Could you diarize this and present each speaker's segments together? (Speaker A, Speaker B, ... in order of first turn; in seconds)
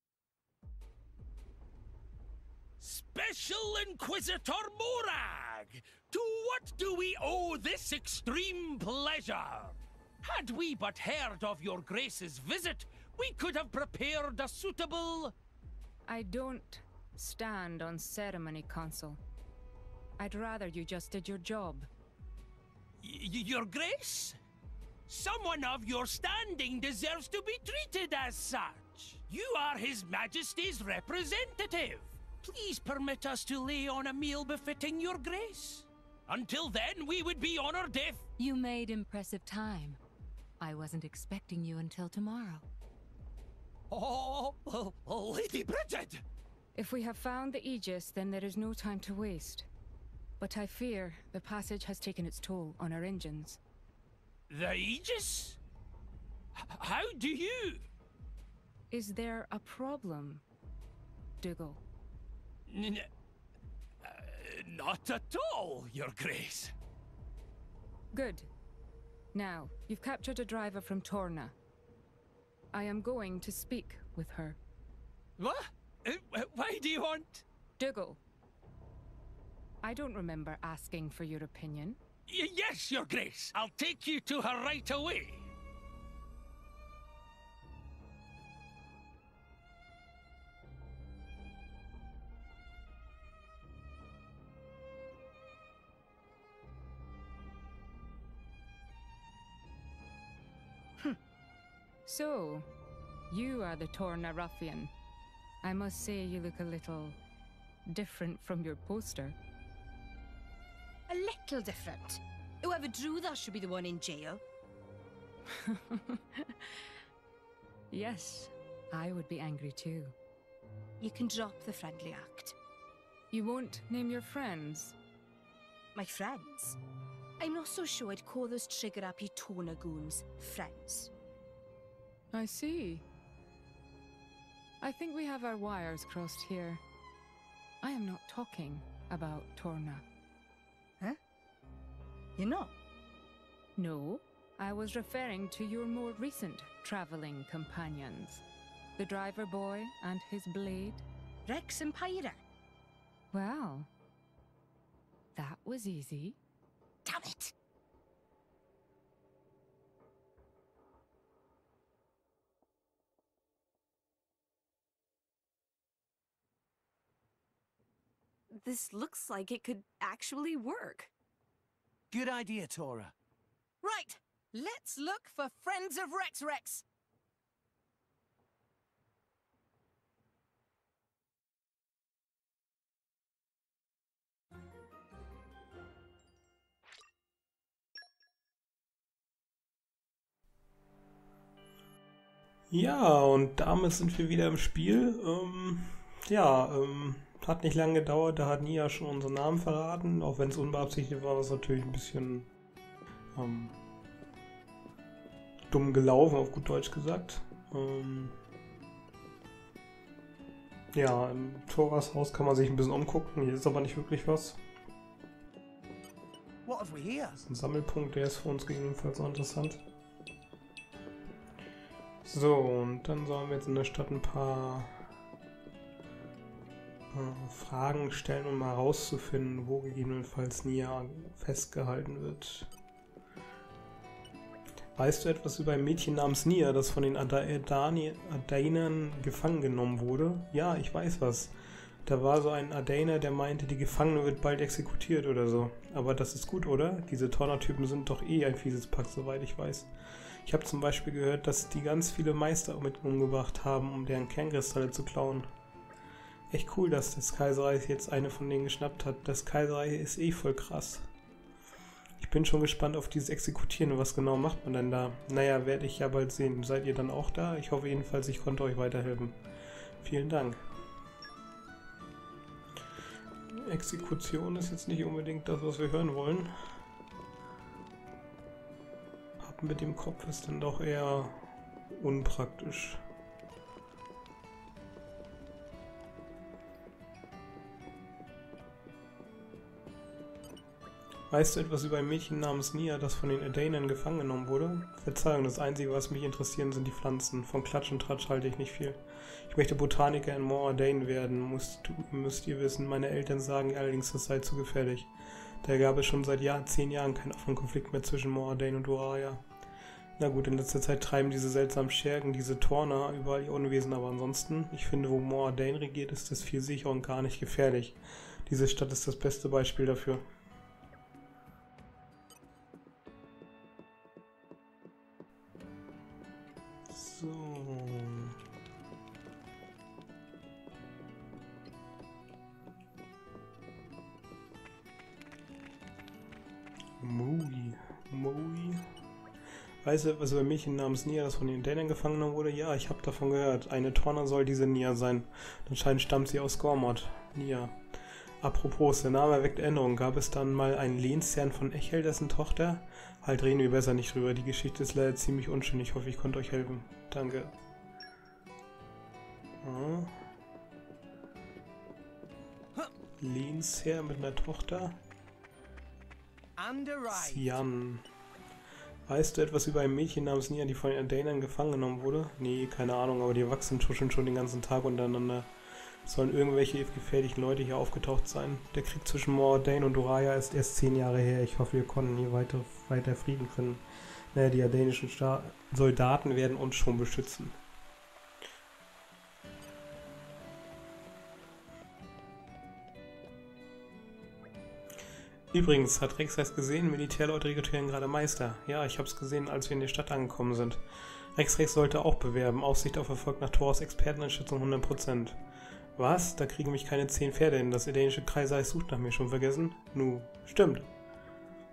Speaker A: 2.8-15.3, 23.0-24.4, 25.1-38.2, 43.9-46.2, 54.5-55.6, 56.6-57.9, 62.7-63.1, 64.0-66.7, 75.4-77.4, 82.3-85.5
Speaker B: 16.1-19.2, 20.2-21.9, 46.8-49.7, 50.4-53.6, 58.9-60.4, 61.4-61.8, 68.1-68.5, 69.3-71.5, 72.7-74.6, 77.8-78.2, 79.8-82.0, 102.1-102.7, 103.3-104.9, 105.6-107.2, 107.9-109.4, 115.5-116.9, 117.9-120.2, 123.3-125.0, 132.3-133.0, 134.8-136.8, 137.8-140.0, 143.8-148.4, 149.0-151.1, 153.3-153.9, 155.3-156.4
Speaker C: 38.4-40.0, 40.6-42.6
Speaker D: 111.1-114.4, 121.0-122.6, 126.0-126.8, 127.4-131.1, 142.4-142.7, 151.5-152.4, 157.1-157.5
Speaker E: 168.6-171.1
Speaker F: 172.1-173.1, 216.7-217.4, 366.6-367.6
Speaker G: 173.8-176.8
Speaker H: 192.7-202.5, 203.3-203.8, 205.7-208.4, 210.9-214.6, 217.4-219.8, 222.2-225.0, 227.1-232.7, 235.0-241.5, 242.1-249.9, 250.4-255.5, 256.5-261.1, 262.2-269.4, 270.0-270.6, 273.5-276.5, 279.4-283.0, 291.3-305.1, 305.6-309.4, 310.2-320.3, 326.9-328.4, 337.0-338.8, 339.8-347.8, 348.4-357.5, 359.6-360.2, 363.2-365.0, 367.1-368.1, 369.1-375.5, 376.1-387.6, 395.5-400.8, 401.4-405.4, 406.0-410.9